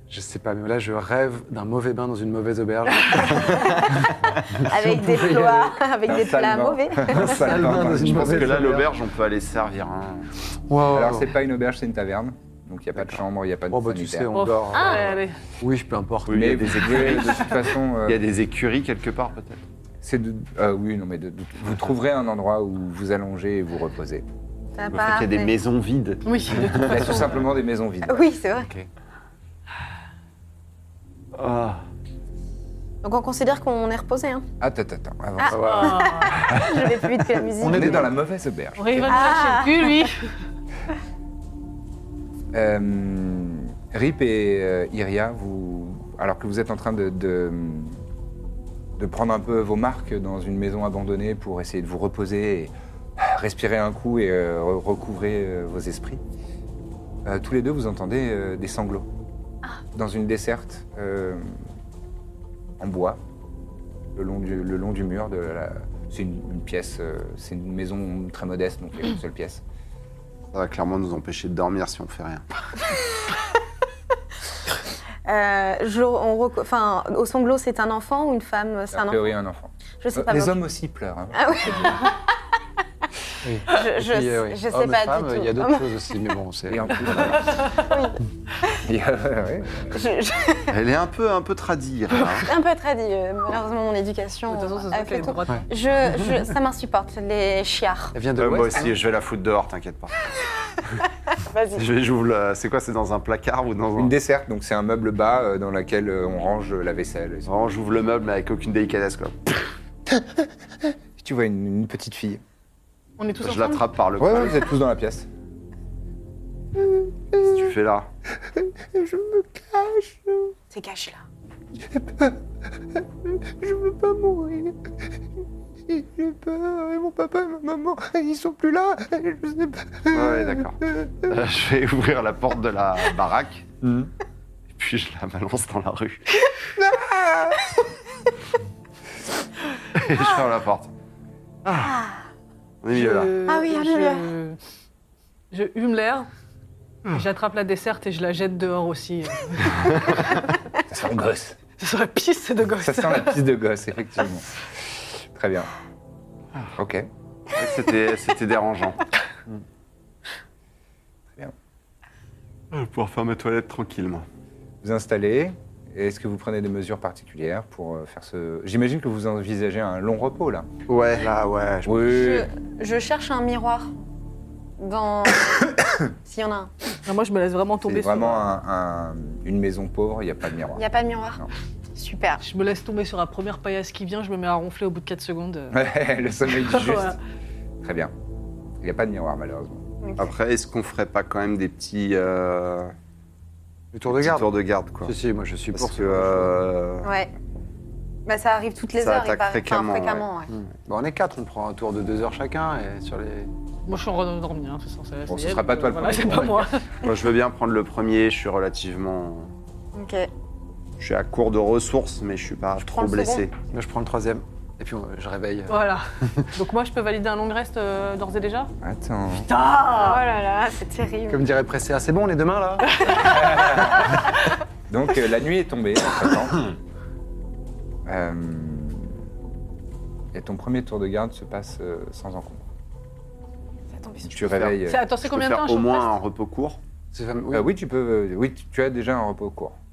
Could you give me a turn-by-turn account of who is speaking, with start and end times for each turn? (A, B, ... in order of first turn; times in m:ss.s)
0:00.1-0:05.8 A
0:04.6-0:07.6 B
0:06.0-0:08.8 C
0:07.1-0:08.9 A
0:07.7-0:10.3 D
0:10.7-0:11.3 A
0:10.9-0:14.3 C
0:13.7-0:17.2 A
0:14.3-0:15.4 E
0:14.7-0:15.1 B
0:16.2-0:19.6 D
0:16.3-0:18.2 C
0:20.0-0:24.2 C
0:24.8-0:25.5 B
0:24.9-0:27.2 D
0:26.2-0:27.4 E
0:26.8-0:28.3 C
0:28.1-0:28.7 B
0:28.6-0:28.9 A
0:31.3-0:31.8 D
0:33.0-0:34.4 B
0:34.6-0:35.7 C
0:35.4-0:38.1 B
0:35.5-0:36.0 A
0:35.6-0:36.5 E
0:37.6-0:38.1 A
0:37.6-0:39.4 C
0:38.8-0:40.3 E
0:39.1-0:40.1 B
0:42.5-0:48.0 C
0:49.0-0:56.2 C
0:57.2-0:59.1 C
0:59.9-1:01.5 C
1:02.8-1:03.2 C
1:04.1-1:09.6 C
1:10.5-1:12.4 D
1:15.2-1:19.3 B
1:18.9-1:22.0 C
1:20.0-1:20.6 B
1:21.3-1:22.2 B
1:23.4-1:27.4 A
1:23.6-1:25.9 B
1:26.7-1:27.8 C
1:27.4-1:27.9 E
1:27.8-1:28.2 B
1:28.8-1:29.9 C
1:29.9-1:30.7 B
1:30.7-1:32.5 D
1:32.4-1:38.1 B
1:34.5-1:35.7 E
1:38.1-1:39.0 A
1:38.4-1:40.3 D
1:41.4-1:41.8 B
1:41.7-1:44.1 D
1:44.0-1:47.5 C
1:47.4-1:49.6 D
1:50.1-1:52.4 C
1:53.2-1:53.9 E
1:53.4-1:54.7 D
1:54.2-1:55.3 C
1:56.8-1:57.6 C
1:57.4-1:58.1 D
1:58.5-2:00.5 C
2:00.7-2:01.2 B
2:01.8-2:02.4 C
2:02.9-2:04.9 C
2:05.9-2:11.1 C
2:10.1-2:13.8 D
2:14.7-2:16.2 D
2:16.8-2:17.7 C
2:19.9-2:20.9 D
2:21.8-2:22.2 B
2:22.8-2:23.4 D
2:22.9-2:24.6 E
2:23.4-2:24.3 B
2:25.5-2:26.3 E
2:27.0-2:30.4 E
2:30.9-2:31.6 C
2:31.8-2:33.4 E
2:32.8-2:34.5 C
2:35.1-2:35.7 C
2:36.8-2:37.1 C
2:37.5-2:39.1 D
2:42.7-2:44.2 D
2:44.8-2:50.7 C
2:50.9-2:52.1 D
2:51.8-2:52.5 C
2:52.0-2:53.9 B
2:54.8-2:56.7 B
2:57.0-2:58.5 E
2:57.8-3:00.8 C
3:00.7-3:01.4 B
3:01.9-3:02.4 B
3:02.4-3:05.8 E
3:05.7-3:07.2 C
3:06.6-3:07.2 E
3:07.8-3:08.1 C
3:08.8-3:09.8 C
3:10.0-3:10.3 B
3:10.2-3:12.9 D
3:13.9-3:14.5 A
3:14.1-3:15.1 D
3:15.0-3:16.5 A
3:15.7-3:17.1 D
3:17.0-3:17.3 B
3:18.2-3:20.5 B
3:19.0-3:20.2 D
3:20.8-3:23.5 A
3:23.8-3:26.8 E
3:25.3-3:26.7 C
3:27.0-3:29.5 D
3:29.9-3:30.3 B
3:31.0-3:33.5 D
3:32.8-3:33.4 B
3:33.7-3:36.5 A
3:35.7-3:38.7 E
3:38.8-3:39.5 C
3:39.4-3:40.2 E
3:39.8-3:41.4 B
3:41.3-3:43.1 A
3:42.8-3:44.6 E
3:43.1-3:44.3 C
3:44.9-3:46.7 C
3:48.0-3:49.1 C
3:50.3-3:52.6 C
3:53.9-3:54.5 B
3:54.3-3:55.0 C
3:54.4-3:56.8 D
3:54.8-3:56.1 E
3:57.1-3:57.7 A
3:57.5-3:59.8 C